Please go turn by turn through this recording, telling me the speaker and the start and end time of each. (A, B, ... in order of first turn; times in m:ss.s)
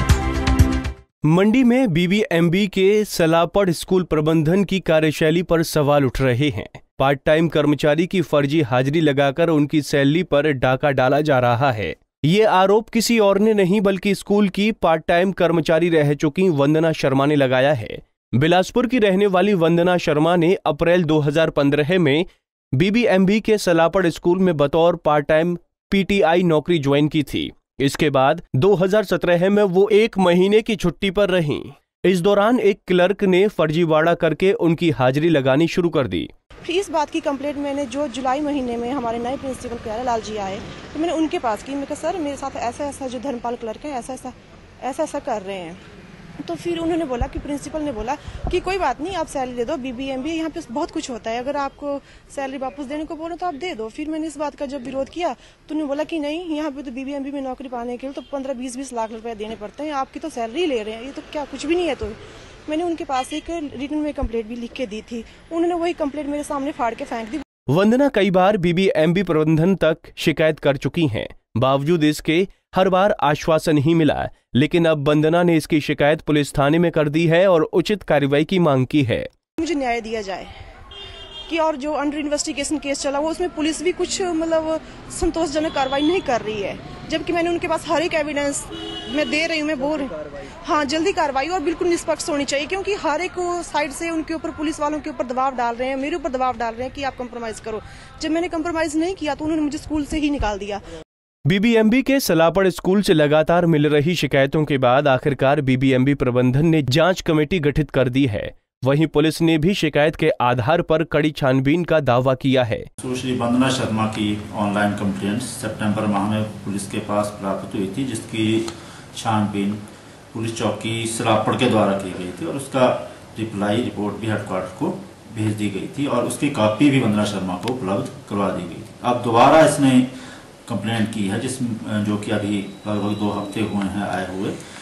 0:01.2-0:36.3 A
0:36.6-0:45.8 B
0:46.4-1:07.4 B
1:07.7-1:19.3 A
1:19.6-1:20.5 B
1:21.5-1:40.8 B
1:41.5-1:52.9 A
1:53.0-1:59.8 C
2:00.3-2:10.1 C
2:10.7-2:14.6 C